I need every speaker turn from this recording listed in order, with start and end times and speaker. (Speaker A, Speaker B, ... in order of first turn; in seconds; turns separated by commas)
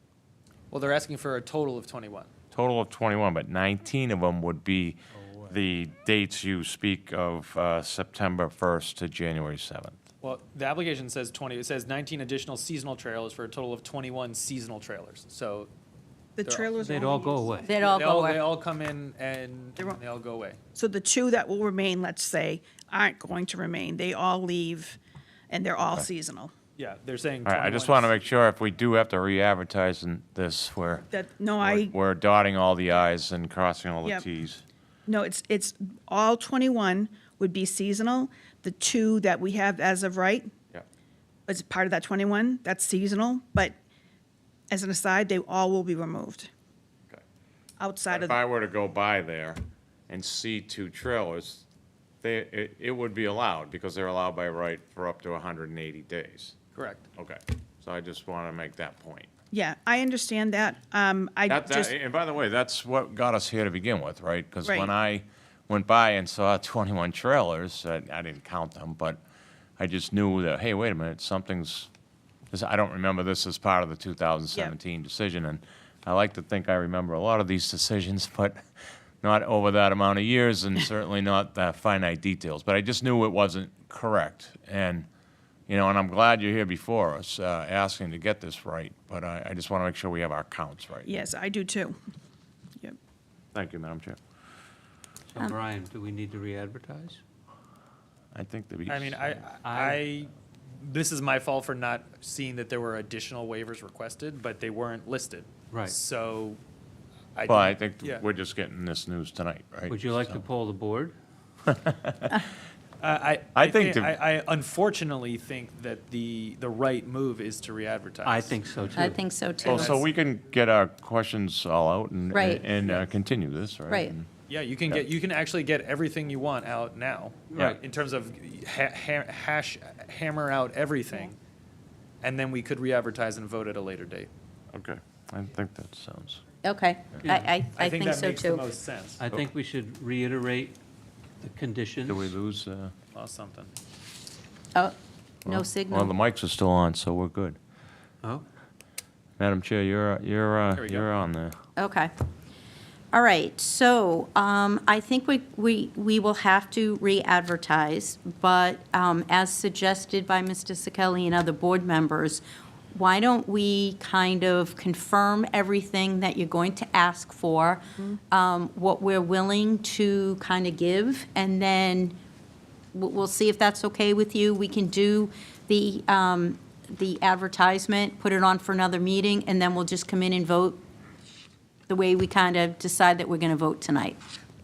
Speaker A: 0.7-2.3, Speaker B: 2.5-10.0, Speaker A: 10.2-15.7, Speaker C: 16.4-17.8, Speaker A: 16.4-16.8, Speaker D: 16.8-17.7, Speaker E: 17.6-18.5, Speaker A: 17.8-20.6, Speaker C: 20.7-25.0, Speaker C: 25.5-26.5, Speaker B: 25.8-26.1, Speaker A: 26.8-28.1, Speaker B: 27.4-31.1, Speaker C: 31.1-31.9, Speaker B: 31.6-34.6, Speaker C: 35.1-40.5, Speaker C: 41.5-43.8, Speaker C: 44.7-46.5, Speaker C: 47.8-48.4, Speaker B: 48.1-51.6, Speaker B: 52.2-56.5, Speaker A: 56.7-57.0, Speaker B: 57.2-59.3, Speaker C: 59.5-61.9, Speaker B: 61.5-69.2, Speaker C: 64.6-64.9, Speaker B: 69.8-71.9, Speaker B: 72.5-78.6, Speaker B: 79.2-85.1, Speaker B: 85.7-91.1, Speaker C: 91.0-92.0, Speaker B: 93.5-94.2, Speaker D: 95.3-97.2, Speaker B: 98.3-99.3, Speaker A: 98.9-106.6, Speaker D: 99.6-100.0, Speaker A: 107.3-108.2, Speaker B: 107.5-110.4, Speaker D: 109.9-111.1, Speaker B: 111.7-112.2, Speaker A: 113.0-118.6, Speaker B: 113.5-114.1, Speaker D: 118.2-119.2, Speaker E: 118.9-119.8, Speaker A: 119.6-120.0, Speaker B: 119.6-124.3, Speaker D: 119.7-120.0, Speaker E: 122.3-122.6, Speaker E: 123.9-124.1, Speaker A: 124.5-131.3, Speaker D: 127.5-127.8, Speaker A: 132.2-134.3, Speaker B: 134.7-136.4, Speaker E: 136.6-138.7, Speaker A: 137.8-139.2, Speaker D: 139.2-140.8, Speaker D: 141.4-142.3, Speaker B: 142.1-142.9, Speaker A: 143.1-143.7, Speaker E: 144.7-146.1, Speaker B: 145.4-147.6, Speaker B: 149.4-151.6, Speaker A: 150.8-151.1, Speaker E: 151.8-152.1, Speaker E: 153.1-172.2, Speaker E: 172.9-180.8, Speaker E: 181.9-184.2